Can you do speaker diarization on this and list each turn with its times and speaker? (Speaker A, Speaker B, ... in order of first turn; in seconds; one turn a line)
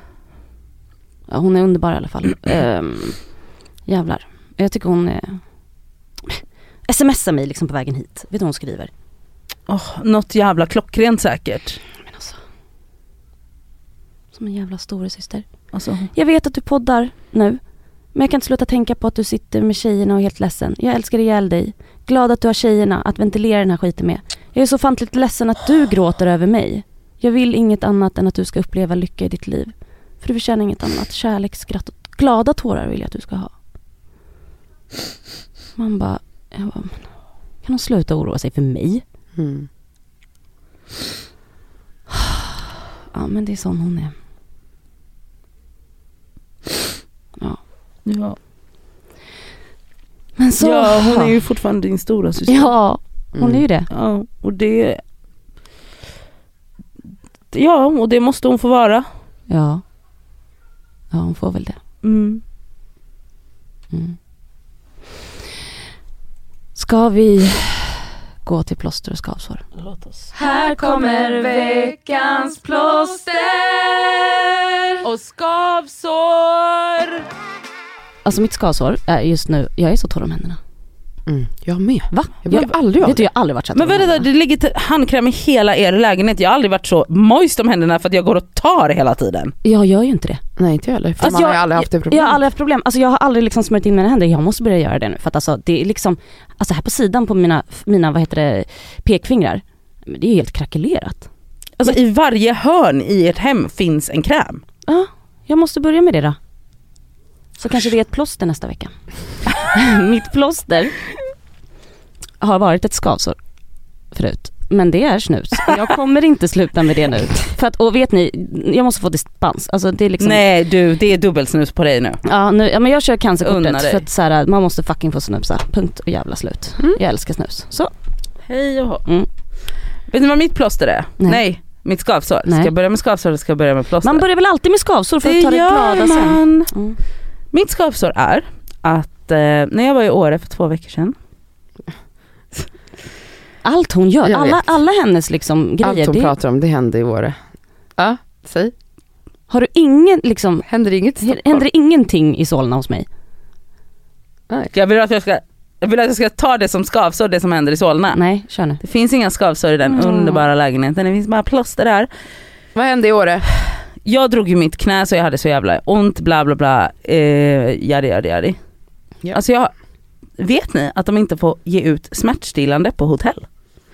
Speaker A: 1.3-5.5
Speaker A: 6.3-8.9
Speaker B: 9.7-11.8
Speaker A: 12.1-12.4
Speaker A: 14.3-15.5
Speaker B: 15.7-16.1
Speaker A: 16.1-33.5
Speaker A: 35.8-39.0
Speaker C: 39.4-39.7
Speaker A: 43.1-44.1
Speaker B: 48.0-48.4
Speaker A: 50.4-51.4
Speaker B: 50.6-52.8
Speaker A: 52.5-53.9
Speaker C: 53.4-53.6
Speaker B: 53.9-55.0
Speaker B: 57.5-59.1
Speaker A: 59.5-59.8
Speaker A: 61.1-61.8
Speaker B: 62.0-62.4
Speaker A: 63.9-64.2
Speaker A: 66.8-69.7
Speaker B: 69.8-70.3
Speaker A: 70.3-73.4
Speaker B: 75.0-77.2
Speaker A: 78.2-80.6
Speaker C: 81.3-83.3
Speaker A: 82.1-84.3
Speaker B: 83.8-89.5
Speaker A: 89.6-90.4
Speaker C: 90.6-92.4
Speaker A: 91.2-101.3
Speaker B: 91.3-91.5
Speaker B: 101.8-104.6
Speaker A: 104.9-106.4
Speaker A: 107.6-109.0
Speaker A: 109.6-111.0
Speaker A: 112.4-113.4
Speaker A: 114.1-120.4
Speaker B: 120.2-122.2
Speaker A: 122.2-127.9
Speaker B: 123.4-124.0
Speaker B: 128.5-129.0
Speaker B: 130.1-134.2
Speaker A: 132.5-132.7
Speaker A: 134.0-137.0
Speaker B: 135.2-136.7
Speaker B: 137.5-141.2
Speaker A: 143.6-146.3
Speaker C: 144.2-144.6
Speaker C: 145.8-147.4
Speaker C: 148.0-148.7
Speaker A: 149.5-150.7
Speaker C: 150.7-151.6
Speaker A: 151.2-153.1
Speaker B: 154.7-158.2
Speaker A: 158.1-158.8
Speaker B: 158.8-162.1
Speaker A: 159.9-160.4
Speaker C: 162.8-163.5
Speaker B: 164.0-168.6
Speaker B: 169.3-169.7
Speaker B: 170.4-173.5